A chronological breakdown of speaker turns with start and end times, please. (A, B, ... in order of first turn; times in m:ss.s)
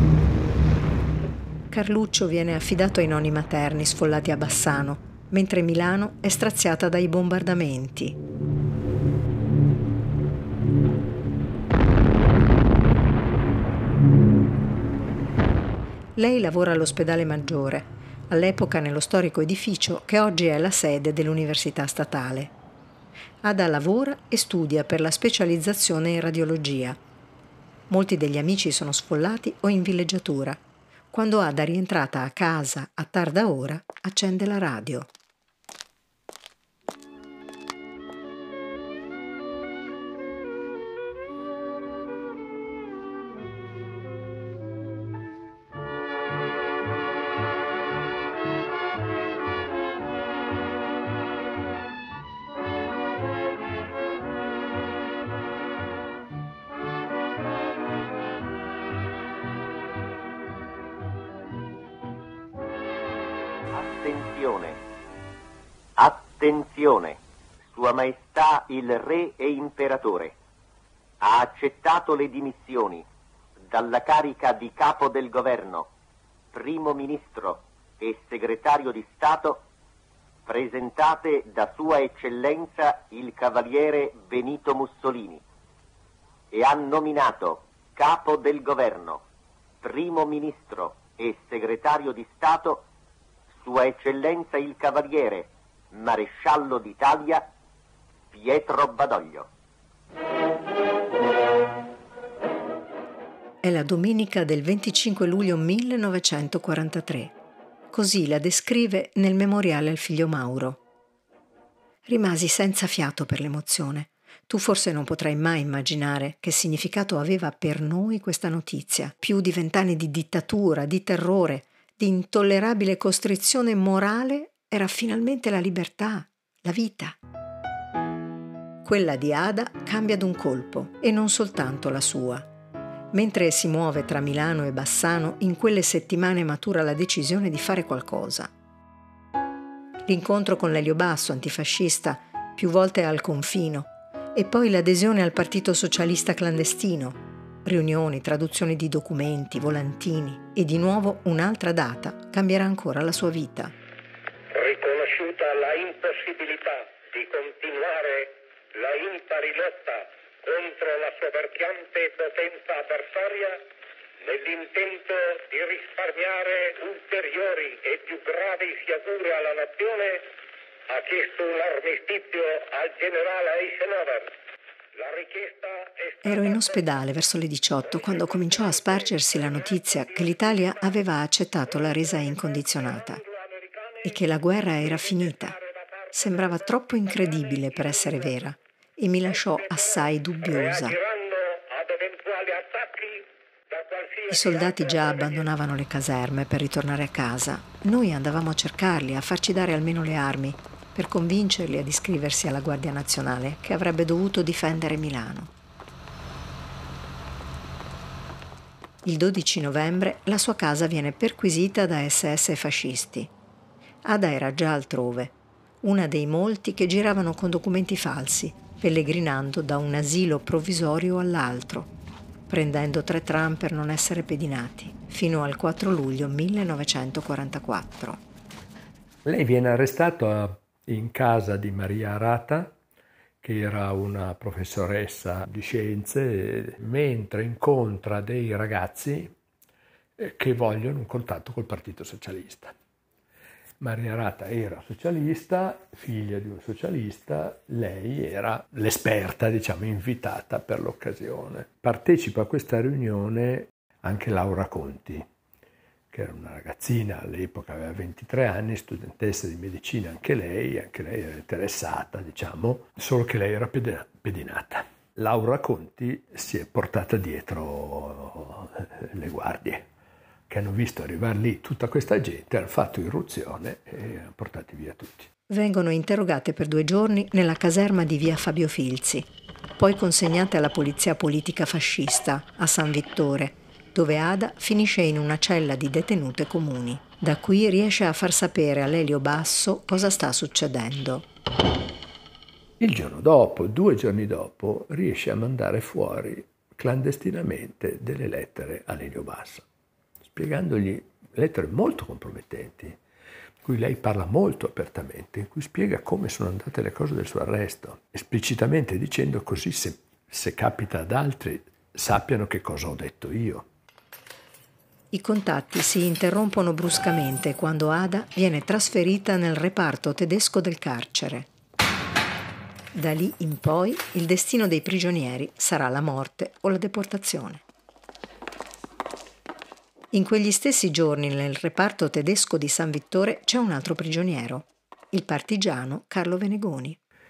0:01.7-0:08.2 A
0:16.2-0:22.5 A
0:23.4-0:27.0 A
0:27.9-0:30.6 A
0:31.1-0:35.1 A
1:03.7-1:04.8 B
1:06.0-1:07.2 B
1:07.7-1:10.4 B
1:11.2-1:13.1 B
1:13.7-1:15.9 B
1:16.5-1:19.6 B
1:20.5-1:25.4 B
1:26.5-1:29.2 B
1:29.8-1:32.9 B
1:33.6-1:37.5 B
1:38.3-1:39.5 B
1:43.6-1:47.3 A
1:47.9-1:50.8 A
1:52.1-2:07.2 A
2:08.8-2:12.5 A
2:13.1-2:18.5 A
2:20.1-2:33.7 A
2:34.5-2:43.6 C
2:44.2-2:50.3 C
2:50.9-2:54.3 C
2:55.0-2:56.2 C
2:56.2-3:03.2 A
3:03.3-3:04.0 C
3:04.0-3:05.6 A
3:06.1-3:11.0 A
3:10.8-3:15.1 C
3:14.3-3:25.5 A
3:29.0-3:33.3 A
3:34.0-3:41.9 A
3:42.5-3:48.2 A
3:49.2-3:52.8 D
3:53.4-3:59.3 D
4:00.2-4:02.7 D
4:03.8-4:15.2 D
4:16.1-4:29.8 D
4:30.5-4:35.3 D
4:35.5-4:39.3 A
4:39.8-4:51.3 A
4:52.8-4:59.6 D
5:00.3-5:03.0 D
5:03.6-5:13.7 D
5:15.1-5:21.5 A
5:22.9-5:27.6 A
5:30.1-5:37.0 A